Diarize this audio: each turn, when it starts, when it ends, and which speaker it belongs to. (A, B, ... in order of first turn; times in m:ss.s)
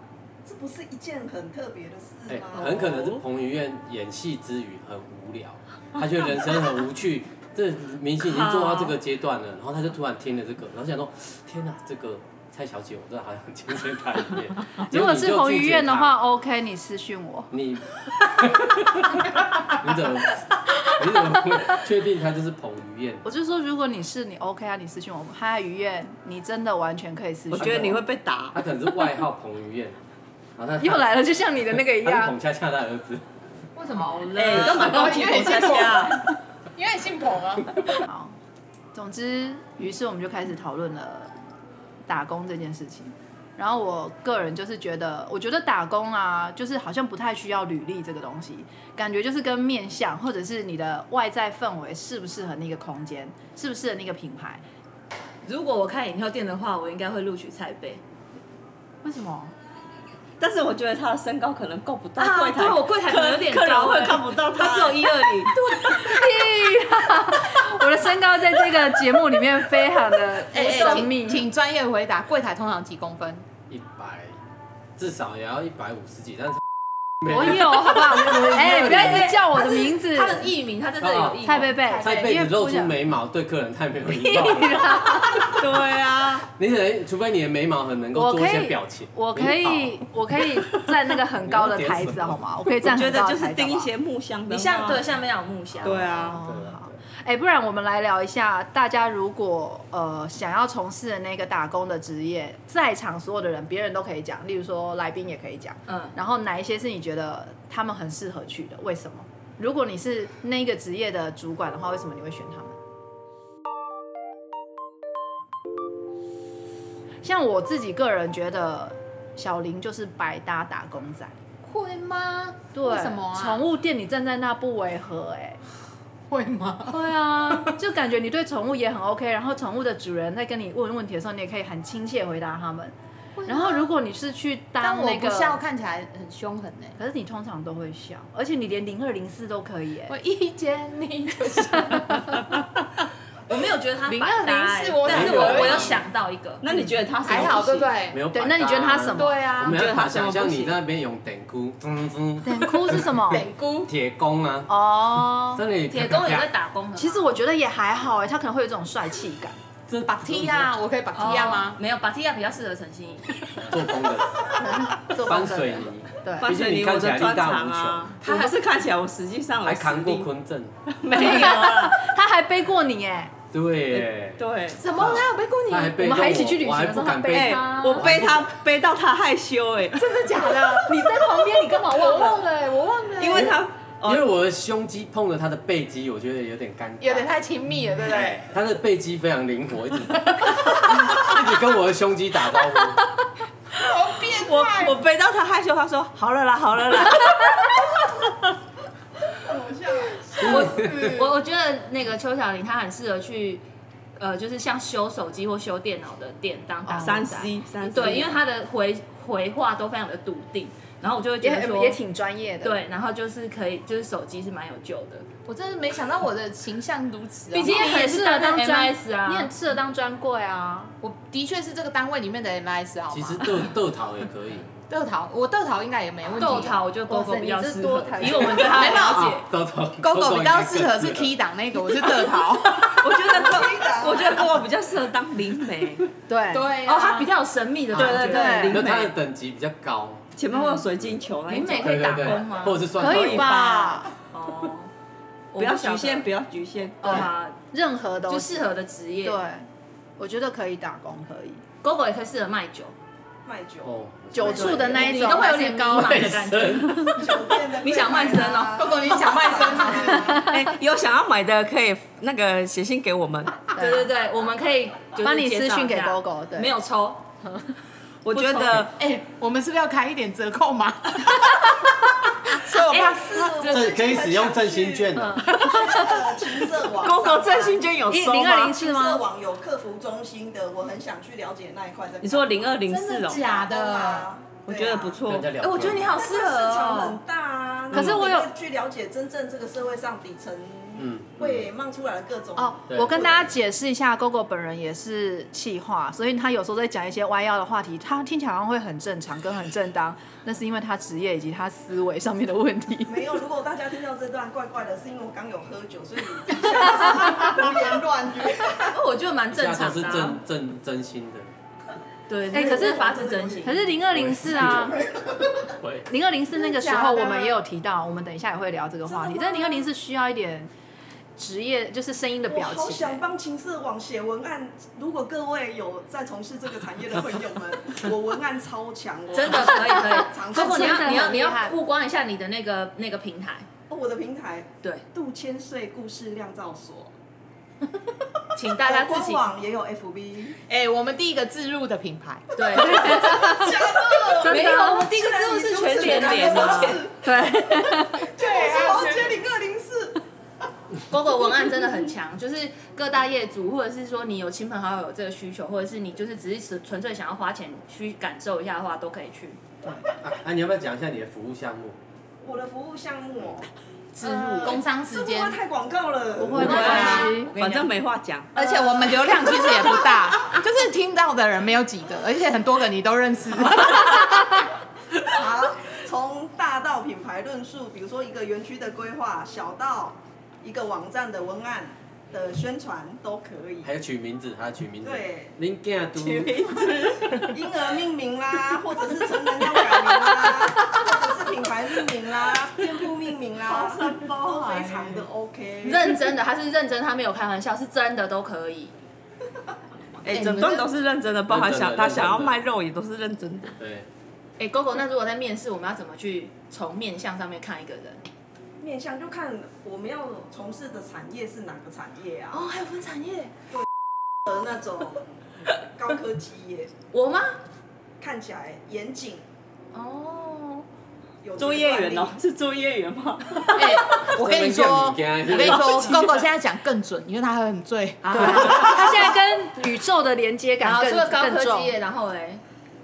0:00.4-0:03.1 A
0:02.3-0:16.2 B
0:08.2-0:09.0 C
0:14.9-0:17.5 D
0:17.5-0:23.2 B
0:23.2-0:28.0 D
0:27.5-0:28.6 E
0:27.6-0:27.9 B
0:28.5-0:30.0 B
0:30.6-0:31.2 B
0:30.8-0:32.3 D
0:31.9-0:33.2 B
0:33.8-0:38.0 F
0:34.3-0:36.2 E
0:34.6-0:35.1 B
0:38.0-0:38.4 D
0:38.9-0:41.3 D
0:42.0-0:54.6 D
0:55.4-0:58.0 C
0:59.0-0:59.5 D
1:00.4-1:05.5 E
1:02.2-1:06.2 C
1:05.6-1:11.5 D
1:10.5-1:13.4 F
1:13.7-1:14.4 B
1:15.0-1:16.6 B
1:17.2-1:19.4 B
1:17.2-1:20.5 D
1:18.3-1:22.3 C
1:21.0-1:21.5 B
1:21.4-1:23.0 D
1:22.0-1:25.8 B
1:24.4-1:25.5 D
1:24.5-1:24.7 C
1:25.3-1:26.5 E
1:26.5-1:30.0 B
1:28.1-1:33.9 D
1:31.4-1:32.4 B
1:32.8-1:35.1 E
1:34.5-1:36.1 C
1:35.7-1:37.0 B
1:35.8-1:36.4 E
1:35.9-1:52.8 D
1:45.9-1:46.1 C
1:57.2-2:01.3 D
2:01.6-2:03.6 F
2:02.7-2:05.6 D
2:06.3-2:07.7 F
2:06.9-2:12.9 D
2:13.4-2:13.9 F
2:13.5-2:15.6 D
2:14.8-2:16.9 F
2:17.0-2:20.1 D
2:20.1-2:22.6 F
2:21.5-2:22.1 D
2:23.5-2:26.7 C
2:24.0-2:26.0 F
2:25.0-2:26.0 B
2:26.6-2:27.9 E
2:27.2-2:28.2 F
2:28.1-2:36.5 B
2:28.3-2:29.4 D
2:29.1-2:29.8 F
2:29.6-2:30.8 E
2:32.4-2:33.5 D
2:33.3-2:33.9 F
2:34.7-2:35.6 D
2:35.8-2:37.4 C
2:36.9-2:39.6 D
2:39.9-2:40.7 B
2:40.0-2:41.8 F
2:41.1-2:43.3 C
2:43.6-2:48.1 B
2:44.6-2:46.5 D
2:46.4-2:50.3 E
2:48.2-2:48.5 C
2:49.6-2:50.8 B
2:50.9-2:52.0 E
2:51.1-2:53.3 D
2:51.2-2:51.9 C
2:53.5-2:58.5 B
2:54.4-2:54.8 E
2:54.9-2:55.5 C
2:55.0-2:55.6 F
2:55.8-2:58.1 D
2:57.3-3:00.1 E
3:00.0-3:03.5 F
3:00.1-3:02.5 D
3:03.2-3:04.3 E
3:04.0-3:07.4 B
3:07.0-3:08.5 F
3:08.1-3:13.0 B
3:10.1-3:11.4 F
3:13.7-3:15.0 F
3:14.1-3:17.7 E
3:19.4-3:20.9 A
3:20.4-3:21.3 B
3:20.4-3:23.6 C
3:24.2-3:32.0 C
3:26.8-3:27.2 D
3:27.0-3:28.4 E
3:31.4-3:32.8 D
3:32.6-3:35.3 C
3:35.5-3:37.8 F
3:37.5-3:39.5 C
3:37.6-3:40.9 D
3:41.0-3:43.7 F
3:43.1-3:44.7 B
3:44.9-3:46.8 F
3:46.3-3:49.4 C
3:47.1-3:49.1 D
3:48.6-3:49.4 F
3:49.2-3:51.3 B
3:50.0-3:53.0 F
3:52.7-3:56.1 E
3:53.0-3:54.5 A
3:56.3-3:56.8 D
3:56.5-3:57.3 F
3:56.7-3:59.1 C
3:57.9-3:59.1 E
3:57.9-4:00.3 B
3:58.2-3:58.8 D
4:00.4-4:02.5 E
4:01.5-4:02.9 C
4:01.8-4:03.6 B
4:03.0-4:04.1 D
4:03.1-4:03.6 E
4:03.2-4:04.0 F
4:04.3-4:04.9 C
4:05.5-4:06.3 C
4:05.6-4:07.3 E
4:07.0-4:08.7 D
4:07.0-4:07.6 C
4:08.3-4:09.4 C
4:09.2-4:11.6 D
4:11.8-4:12.9 C
4:13.4-4:15.3 A
4:13.8-4:15.1 B
4:14.3-4:16.1 D
4:14.5-4:19.3 C
4:15.9-4:17.3 B
4:17.0-4:20.4 A
4:18.8-4:20.6 F
4:20.0-4:20.3 D
4:20.2-4:23.7 E
4:23.7-4:27.3 C
4:23.8-4:24.1 D
4:25.2-4:26.7 D
4:28.2-4:28.9 E
4:28.3-4:28.9 C
4:28.9-4:33.4 F
4:32.6-4:37.8 A
4:32.9-4:33.9 C
4:33.7-4:35.6 B
4:35.6-4:36.2 F
4:35.7-4:36.0 E
4:37.0-4:38.7 E
4:38.1-4:39.2 D
4:38.4-4:45.2 A
4:42.2-4:43.4 E
4:42.9-4:44.3 F
4:44.6-4:45.5 E
4:45.2-4:46.2 B
4:45.6-4:47.2 C
4:46.0-4:53.5 A
4:47.9-4:48.5 D
4:48.0-4:48.2 C
4:51.0-4:51.7 B
4:52.6-5:03.2 D
4:52.9-4:53.2 B
5:03.1-5:09.0 A
5:08.8-5:10.4 C
5:09.5-5:11.5 B
5:12.3-5:13.9 C
5:12.5-5:15.0 D
5:12.5-5:13.8 A
5:14.1-5:15.1 B
5:14.5-5:15.7 A
5:15.8-5:16.1 B
5:16.1-5:20.7 D
5:16.6-5:17.6 A
5:19.1-5:19.9 A
5:21.4-5:23.2 D
5:22.5-5:31.4 A
5:29.3-5:33.7 C
5:29.7-5:31.7 D
5:33.9-5:37.1 A
5:38.6-5:39.4 C
5:38.6-5:40.6 A
5:40.7-5:42.5 F
5:42.5-5:47.1 C
5:42.8-5:43.7 D
5:42.9-5:47.6 A
5:44.4-5:45.0 D
5:46.0-5:46.9 E
5:47.2-5:48.3 D
5:48.1-5:50.2 A
5:48.6-5:49.3 F
5:51.1-5:59.6 C
6:00.2-6:02.0 B
6:02.4-6:03.7 A
6:04.2-6:05.6 F
6:04.2-6:07.3 A
6:06.4-6:07.5 D
6:06.6-6:07.9 C
6:06.6-6:08.5 E
6:06.6-6:07.4 F
6:08.5-6:14.7 F
6:15.2-6:23.9 A
6:23.8-6:26.7 B
6:25.0-6:25.5 A
6:26.1-6:27.6 E
6:27.3-6:36.2 A
6:33.7-6:35.0 E
6:35.8-6:38.9 C
6:40.2-6:43.8 E
6:40.3-6:40.9 F
6:41.5-6:42.6 B
6:43.8-6:44.1 B
6:44.6-6:48.2 C
6:48.8-6:52.7 A
6:52.5-6:53.5 C
6:54.4-6:56.9 A
6:57.1-6:57.6 C
6:58.2-6:59.4 A
6:59.9-7:00.8 C
7:01.4-7:02.4 A
7:01.6-7:04.2 E
7:03.7-7:09.2 F
7:04.2-7:06.3 B
7:08.3-7:11.9 D
7:08.5-7:09.4 C
7:10.8-7:12.6 C